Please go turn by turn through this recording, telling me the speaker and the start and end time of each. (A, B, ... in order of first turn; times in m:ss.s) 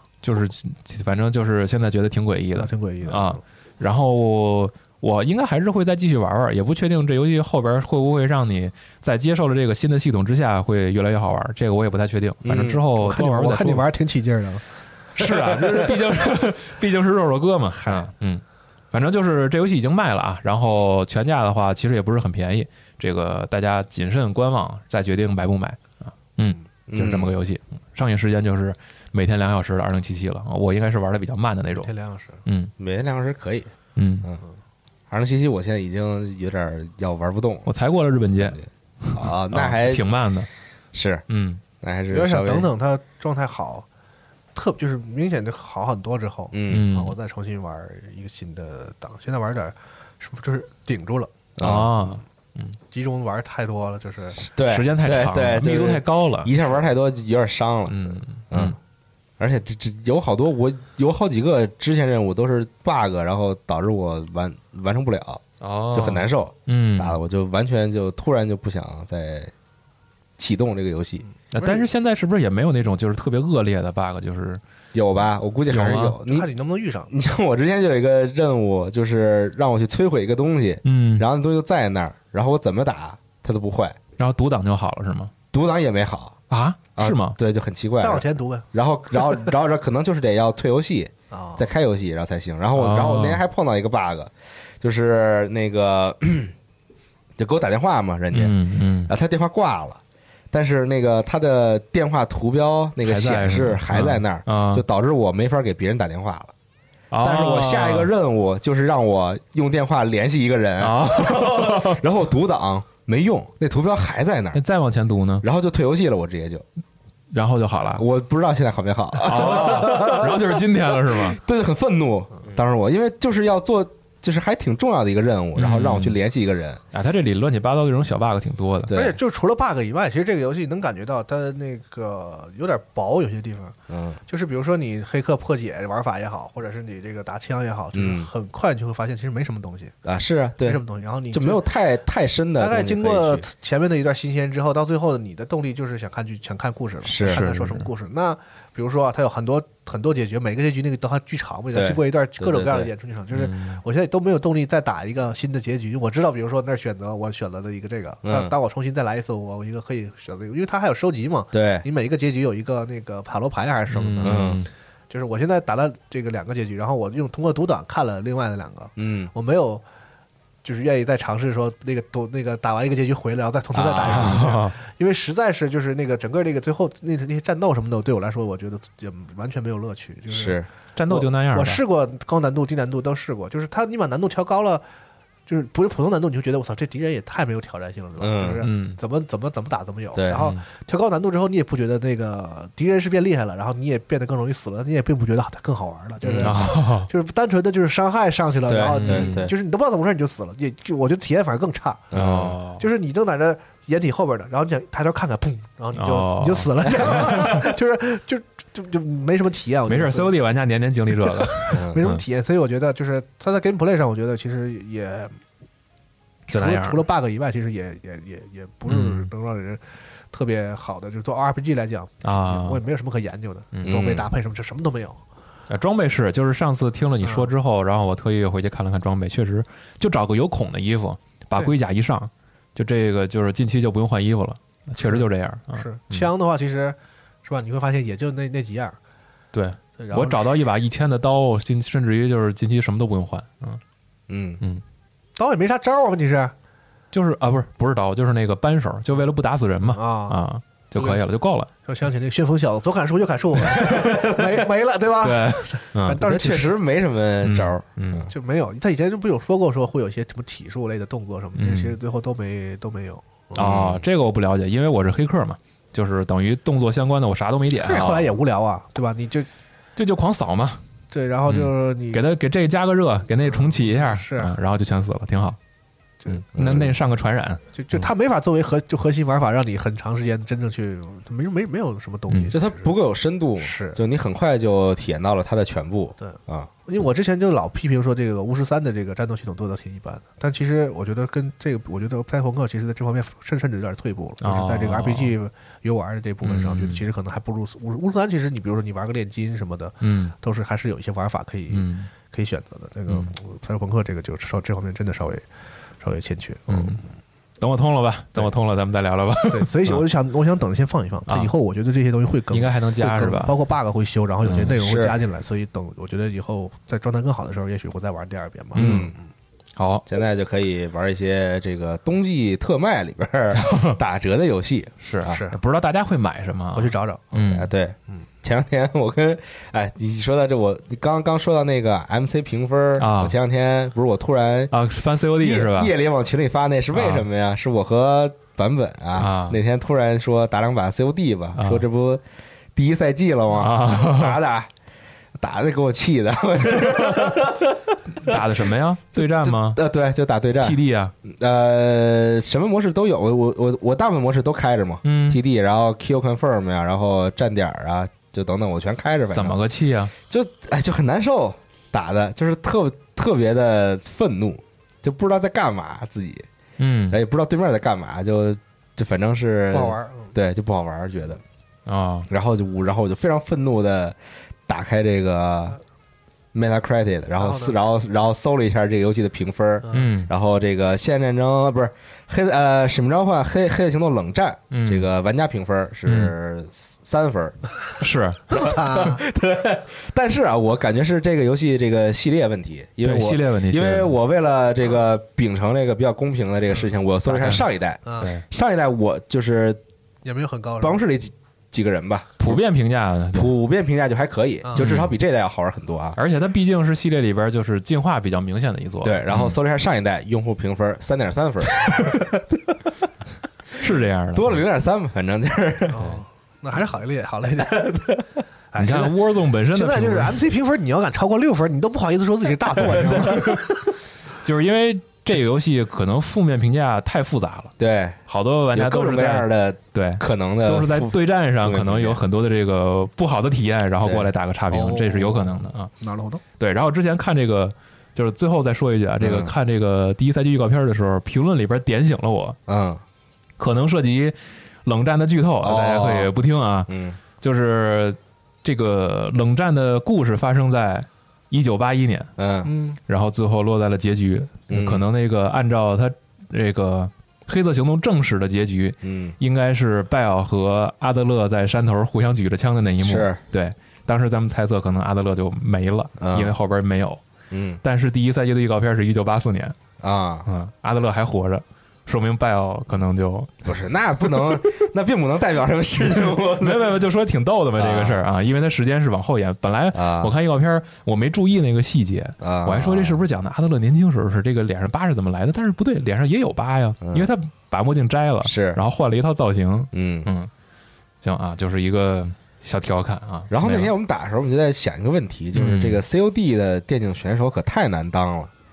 0:00.2-0:13.8 A
0:02.6-0:03.4 B
0:12.4-0:12.8 C
0:13.0-0:14.6 B
0:15.2-0:31.9 A
0:15.5-0:15.9 B
0:26.9-0:27.3 C
0:31.8-0:32.4 B
0:32.5-0:32.7 A
0:32.8-0:33.7 C
0:34.0-0:34.3 A
0:35.1-0:37.7 C
0:37.7-0:40.5 A
0:38.4-0:40.0 C
0:40.9-0:41.2 C
0:41.3-0:41.6 A
0:41.8-0:42.7 C
0:42.1-0:43.8 B
0:44.6-0:51.3 B
0:46.5-0:46.8 C
0:46.7-0:47.2 A
0:51.6-0:51.9 C
0:51.6-0:52.8 A
0:52.9-0:54.4 B
0:54.4-0:58.8 C
0:54.7-0:56.5 A
0:57.9-0:58.8 A
0:59.4-1:05.4 C
1:05.6-1:07.2 A
1:05.9-1:09.5 C
1:10.4-1:11.2 C
1:11.5-1:14.6 A
1:11.6-1:11.8 B
1:14.9-1:16.5 C
1:15.7-1:16.2 A
1:16.2-1:17.1 B
1:17.1-1:24.0 C
1:20.8-1:21.3 A
1:24.2-1:25.3 A
1:25.5-1:26.4 C
1:26.5-1:27.4 A
1:27.0-1:36.5 C
1:28.0-1:28.7 B
1:31.3-1:31.6 B
1:32.8-1:33.4 A
1:37.4-1:40.0 C
1:38.3-1:39.1 A
1:40.5-1:46.5 C
1:43.0-1:44.8 A
1:47.1-1:48.1 A
1:47.2-1:54.6 C
1:50.8-1:52.0 A
1:54.5-1:55.4 A
1:55.4-1:56.6 C
1:57.3-1:58.0 A
1:58.0-2:00.4 C
1:59.2-2:01.4 A
2:01.2-2:06.8 C
2:05.6-2:06.2 A
2:06.9-2:08.9 A
2:08.9-2:09.2 C
2:08.9-2:13.8 B
2:13.9-2:14.2 C
2:14.3-2:20.0 B
2:17.9-2:18.3 C
2:20.0-2:20.8 C
2:20.6-2:21.6 B
2:21.3-2:23.4 C
2:22.6-2:44.6 B
2:27.0-2:27.4 C
2:27.2-2:27.9 A
2:31.7-2:32.9 C
2:33.3-2:33.8 A
2:38.2-2:38.5 C
2:41.5-2:41.8 C
2:43.9-2:44.7 A
2:44.2-2:44.6 C
2:45.1-2:49.8 B
2:49.0-2:49.3 C
2:50.6-3:04.8 B
2:53.7-2:54.4 C
2:54.0-2:54.8 A
3:00.3-3:00.7 C
3:01.0-3:01.8 A
3:05.5-3:22.2 B
3:08.2-3:08.6 C
3:08.6-3:09.0 A
3:10.2-3:10.5 C
3:16.2-3:16.6 C
3:16.4-3:17.1 A
3:18.7-3:19.5 C
3:18.9-3:19.5 A
3:22.1-3:22.6 C
3:22.2-3:22.8 A
3:22.8-3:30.4 B
3:26.0-3:27.7 A
3:29.9-3:32.2 A
3:31.2-3:35.4 B
3:31.8-3:32.0 C
3:36.5-3:37.0 A
3:36.5-3:45.2 B
3:38.9-3:39.3 A
3:42.2-3:42.8 A
3:43.7-3:44.0 A
3:43.9-3:44.3 C
3:45.7-3:56.3 A
3:47.2-3:47.5 B
3:55.0-3:59.0 B
3:59.5-4:03.8 A
4:00.0-4:00.5 B
4:04.3-4:04.6 C
4:05.4-4:06.5 B
4:07.1-4:11.7 A
4:09.8-4:10.4 B
4:11.0-4:11.2 B
4:11.8-4:16.8 B
4:15.2-4:16.2 A
4:16.2-4:18.3 C
4:17.4-4:18.3 A
4:18.3-4:23.8 B
4:21.6-4:22.0 A
4:23.6-4:28.3 A
4:23.6-4:24.0 C
4:27.8-4:29.5 B
4:30.0-4:30.8 A
4:31.1-4:32.3 B
4:31.5-4:35.6 A
4:33.4-4:34.5 B
4:36.3-4:38.1 A
4:36.6-4:36.9 C
4:37.8-4:43.0 B
4:42.5-4:46.7 C
4:43.6-4:44.0 B
4:46.2-5:05.4 B
4:54.4-4:55.3 A
4:56.4-4:57.0 A
5:00.0-5:00.3 A
5:01.7-5:02.1 A
5:06.0-5:07.0 B
5:06.7-5:07.0 A
5:07.6-5:10.0 A
5:09.5-5:19.2 B
5:11.3-5:11.5 A
5:12.5-5:13.5 A
5:14.4-5:14.7 A
5:14.8-5:15.2 C
5:18.8-5:19.1 A
5:18.8-5:19.1 C
5:19.8-5:20.1 A
5:20.1-5:25.4 C
5:23.5-5:24.0 A
5:25.0-5:27.7 A
5:25.3-5:25.6 B
5:26.8-5:27.3 B
5:27.3-5:34.7 C
5:33.0-5:33.4 A
5:34.7-5:35.9 A
5:35.4-5:42.2 C
5:36.9-5:37.2 A
5:39.2-5:39.6 A
5:41.6-5:41.8 A
5:42.8-5:44.7 C
5:43.6-5:44.4 A
5:45.4-5:48.4 C
5:48.2-5:49.8 A
5:49.2-5:59.6 C
5:50.6-5:51.1 A
5:55.0-5:55.4 A
5:59.3-6:00.1 A
6:00.3-6:06.5 C
6:06.8-6:07.2 A
6:07.1-6:11.4 C
6:09.7-6:10.3 B
6:11.9-6:12.3 A
6:12.3-6:14.2 C
6:14.7-6:15.8 C
6:16.5-6:27.6 C
6:17.4-6:17.8 B
6:19.9-6:20.3 A
6:24.7-6:25.1 A
6:26.1-6:26.3 A
6:28.0-6:28.5 A
6:28.5-6:39.8 C
6:28.5-6:29.2 B
6:33.0-6:34.2 A
6:37.3-6:37.7 A
6:40.2-6:41.0 B
6:40.8-6:42.6 C
6:42.4-6:43.5 A
6:43.3-6:46.2 C
6:44.6-6:44.9 B
6:44.8-6:45.1 A
6:46.2-6:49.6 A
6:49.0-6:52.7 C
6:53.8-6:54.6 A
6:54.3-6:56.2 C
6:55.9-6:57.9 B
6:57.6-6:58.3 C
6:58.7-6:59.2 B
6:58.8-7:00.4 A
6:59.7-7:03.9 B
7:03.1-7:03.6 A
7:04.4-7:07.7 A
7:07.8-7:08.2 C
7:08.3-7:15.9 A
7:08.7-7:12.2 C
7:14.7-7:16.4 B
7:16.6-7:22.6 A
7:19.2-7:19.5 C
7:22.7-7:23.0 C
7:23.6-7:32.3 A
7:25.6-7:26.3 C
7:26.9-7:27.2 C
7:32.4-7:32.7 C
7:32.7-7:33.0 B
7:33.1-7:47.2 A
7:34.7-7:35.0 C
7:39.0-7:39.4 C
7:43.0-7:43.4 C
7:46.2-7:46.5 C
7:47.5-7:47.8 C
7:47.8-7:49.8 A
7:50.0-7:50.5 C
7:50.4-7:53.7 A
7:53.6-7:57.0 C
7:56.1-8:10.5 A
7:57.8-7:58.2 C
7:59.9-8:00.4 C
8:02.4-8:03.2 C
8:07.0-8:07.3 C
8:08.4-8:08.8 C
8:09.9-8:10.3 C
8:11.2-8:13.9 A
8:13.5-8:18.5 C
8:15.5-8:16.0 A